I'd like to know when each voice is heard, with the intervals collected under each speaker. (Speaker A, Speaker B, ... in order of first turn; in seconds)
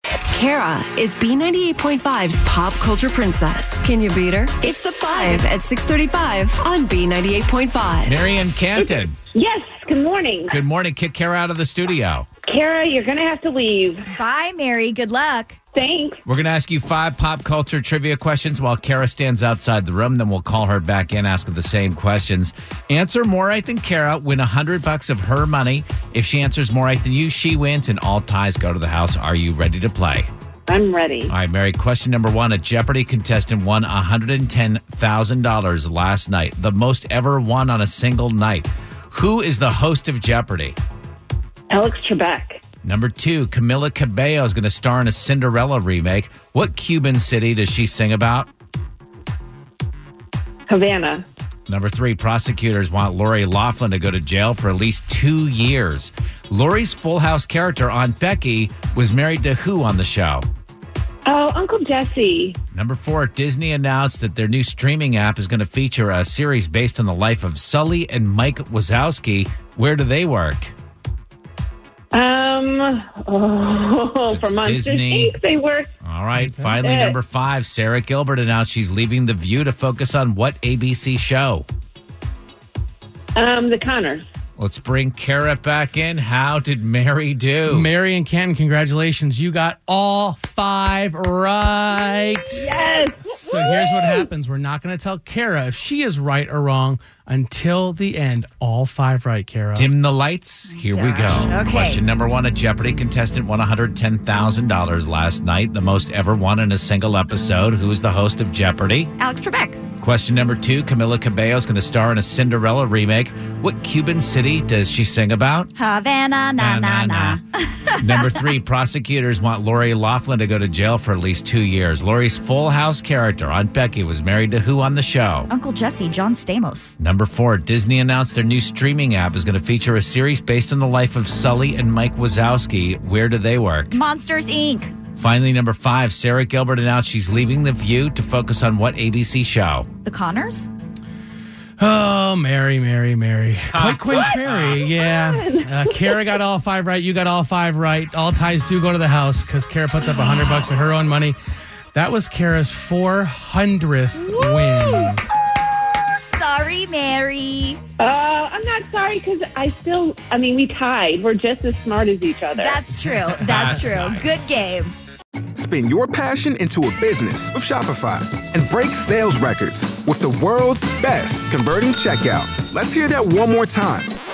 Speaker A: 0.3-8.2
Speaker B: 5.1-5.4, 14.1-15.6, 100.7-102.0, 109.2-109.8, 115.7-118.2, 125.5-126.9, 133.9-134.9, 140.1-140.7, 154.7-155.2, 156.2-157.8, 162.5-164.9
Speaker C: 8.1-9.2, 10.5-12.3, 16.2-30.3, 31.3-40.8, 42.8-48.5, 51.7-60.5, 62.7-70.7, 74.3-75.4, 76.0-81.7, 84.6-87.9, 99.7-109.1, 110.0-115.7, 116.6-117.4, 118.0-125.5, 127.0-134.0, 135.2-139.9, 143.7-144.8, 163.3-164.5
Speaker D: 9.3-10.6, 12.4-14.1, 15.7-16.2, 30.7-31.3, 41.7-42.6, 50.7-51.2, 61.3-62.5, 72.1-75.9, 76.8-77.2, 83.4-84.2, 92.5-94.3, 144.8-146.4, 158.0-162.9
Speaker E: 76.4-76.7, 87.7-92.7, 93.3-99.9, 141.8-151.4, 151.9-155.2, 163.2-163.6
Speaker F: 165.6-174.2